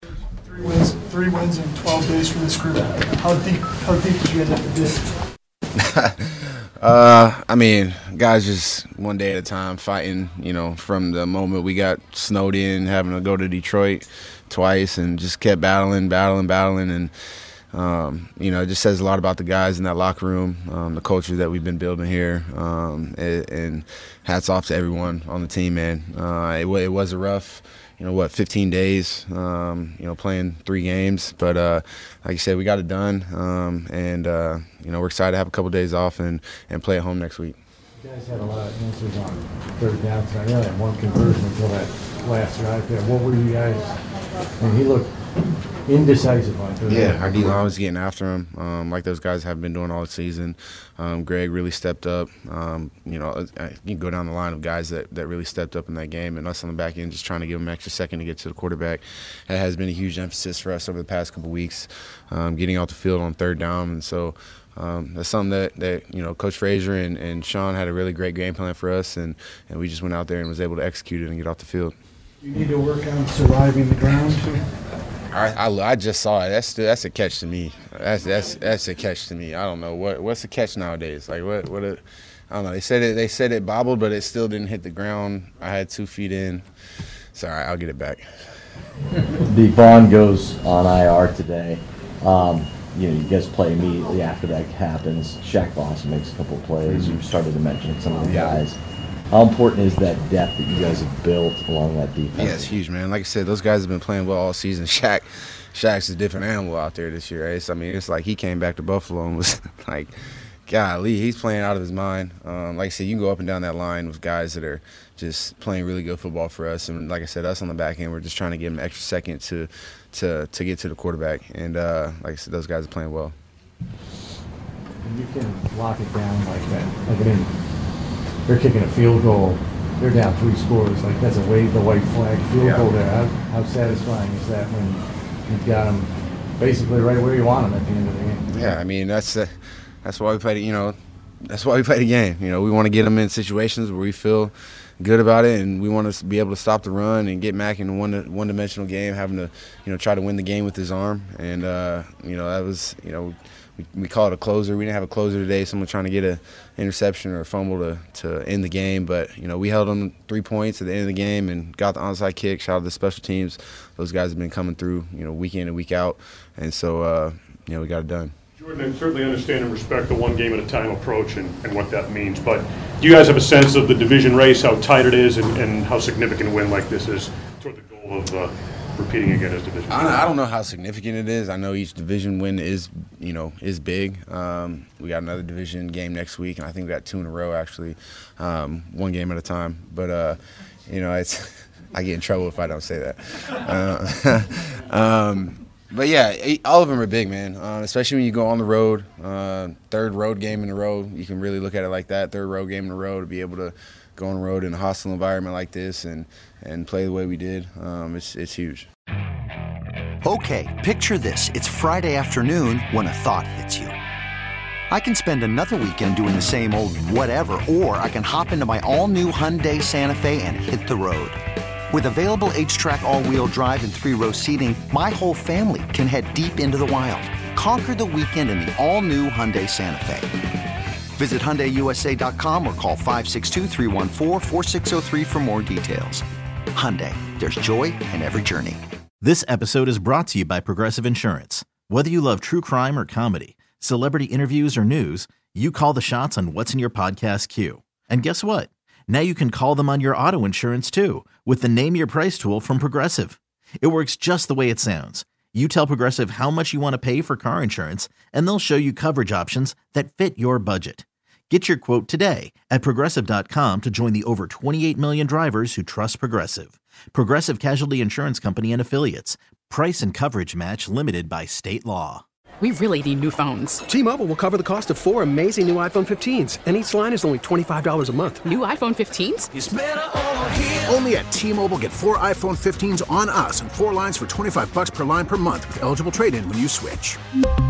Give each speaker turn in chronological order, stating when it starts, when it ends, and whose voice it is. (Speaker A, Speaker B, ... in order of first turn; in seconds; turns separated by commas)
Speaker A: 0.5-5.1, Speaker B: 5.8-17.1, Speaker B: 17.7-37.6, Speaker C: 38.0-44.0, Speaker C: 44.6-45.1, Speaker C: 45.9-47.6, Speaker B: 46.9-71.9, Speaker C: 72.5-73.5, Speaker B: 75.3-86.6, Speaker B: 87.3-88.2, Speaker D: 89.4-98.8, Speaker B: 96.8-97.3, Speaker B: 98.2-98.6, Speaker D: 99.3-102.7, Speaker B: 102.3-110.1, Speaker B: 110.7-123.3, Speaker C: 125.0-127.5, Speaker C: 128.5-138.4, Speaker B: 132.6-132.9, Speaker B: 138.5-139.5, Speaker B: 140.0-140.9, Speaker B: 141.5-168.3, Speaker E: 168.6-180.3, Speaker B: 179.9-208.9, Speaker F: 210.2-213.9, Speaker F: 214.9-221.4, Speaker F: 221.9-230.3, Speaker F: 231.2-236.2, Speaker F: 236.7-238.8, Speaker G: 239.2-272.2, Speaker H: 272.6-273.8, Speaker I: 273.9-278.4, Speaker H: 278.4-279.5, Speaker J: 279.5-287.2